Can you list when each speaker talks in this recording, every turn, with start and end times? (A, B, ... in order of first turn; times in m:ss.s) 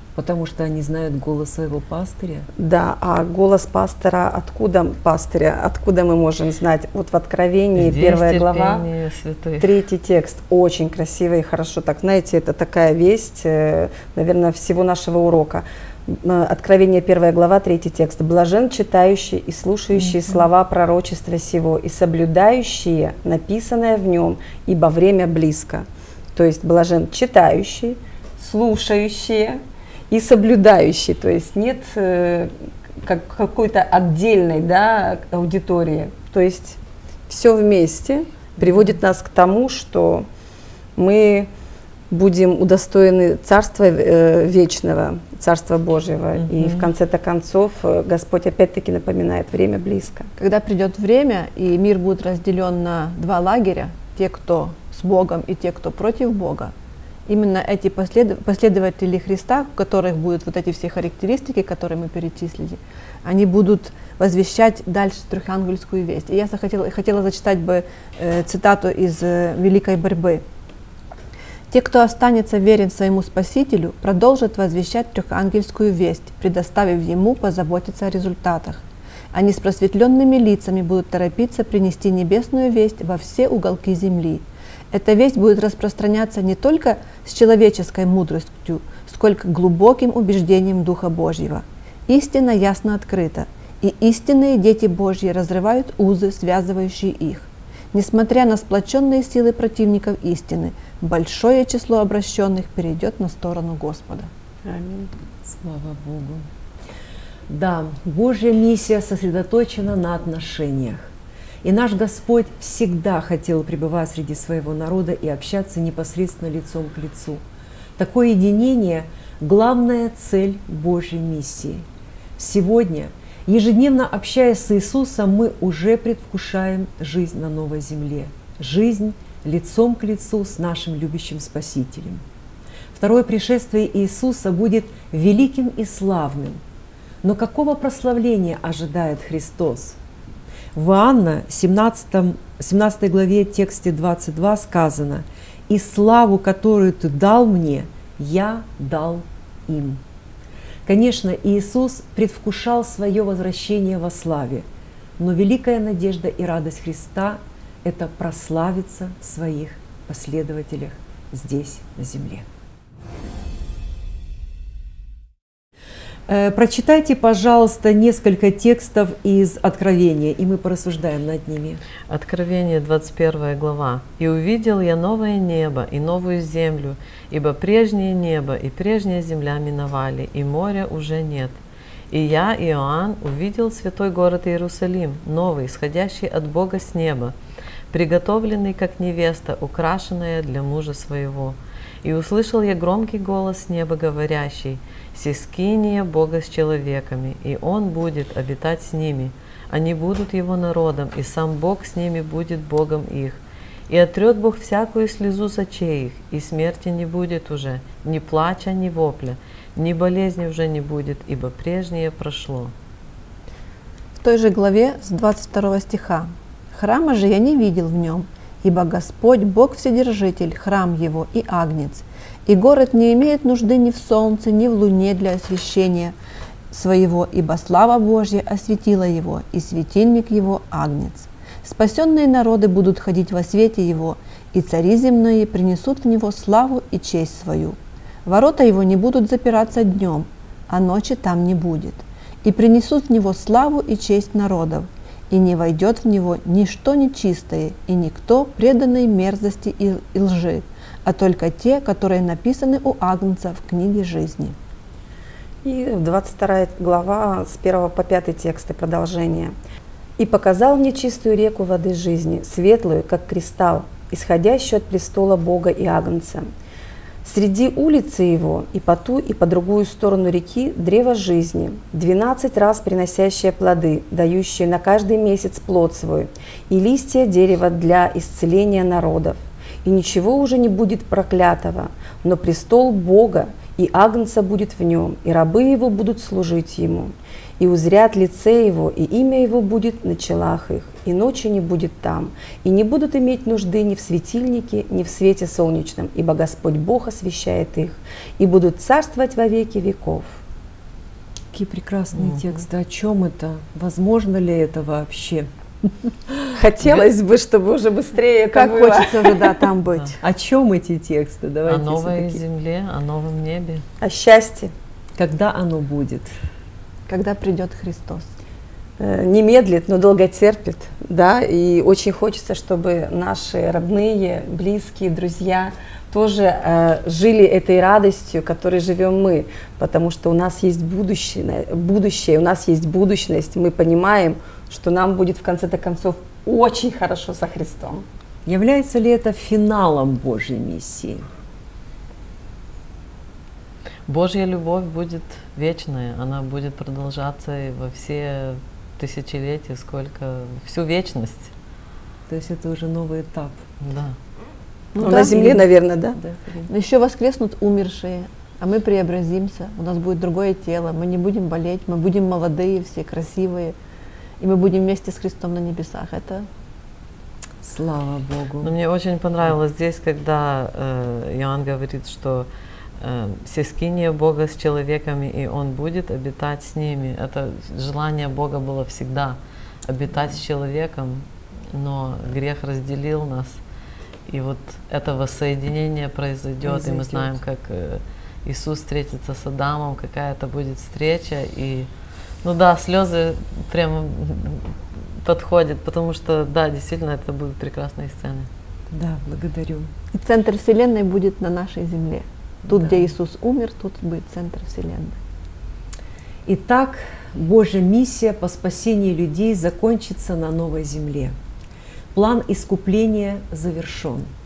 0:00.2-0:02.5 A
0:02.6-0:08.8 B
0:07.7-0:09.7 C
0:09.6-0:40.3 B
0:20.0-0:20.4 A
0:41.0-0:41.5 B
0:42.1-0:50.3 B
0:46.4-0:46.9 A
0:50.4-0:56.7 D
0:57.3-1:10.4 D
1:11.7-1:44.3 D
1:44.6-1:45.1 B
1:45.4-1:46.5 A
1:47.5-1:51.1 A
1:51.6-1:57.4 A
1:58.0-2:01.8 A
2:02.4-2:12.2 A
2:12.9-2:16.6 A
2:17.2-2:20.0 A
2:20.7-2:30.0 A
2:30.8-2:34.6 A
2:35.2-2:42.4 A
2:46.3-2:51.8 A
2:52.1-3:01.6 C
3:02.1-3:07.3 C
3:07.9-3:32.7 C
3:34.2-3:46.2 D
3:46.7-4:14.6 D
4:15.6-4:19.5 B
4:20.2-4:26.5 B
4:27.2-5:00.4 B
5:01.5-5:05.5 A
5:06.1-5:07.0 A
5:06.5-5:09.5 B
5:08.5-5:10.2 D
5:10.2-5:12.4 A
5:11.7-5:13.8 C
5:14.0-5:14.7 B
5:15.2-5:16.3 A
5:17.1-5:18.3 D
5:19.0-5:38.0 B
5:38.4-5:41.3 A
5:44.1-5:51.5 C
5:52.3-5:53.6 A
5:53.8-5:54.2 C
5:54.9-5:55.4 D
5:55.0-5:56.7 A
5:55.0-5:56.2 B
5:56.7-6:03.8 D
6:04.4-6:06.5 D
6:07.6-6:08.7 A
6:08.6-6:12.5 C
6:13.0-6:23.6 C
6:24.3-6:31.9 C
6:26.6-6:27.4 A
6:32.4-6:38.5 C
6:38.9-6:39.9 A
6:40.1-6:45.2 D
6:42.7-6:43.0 A
6:46.4-6:51.3 A
6:52.1-6:54.3 A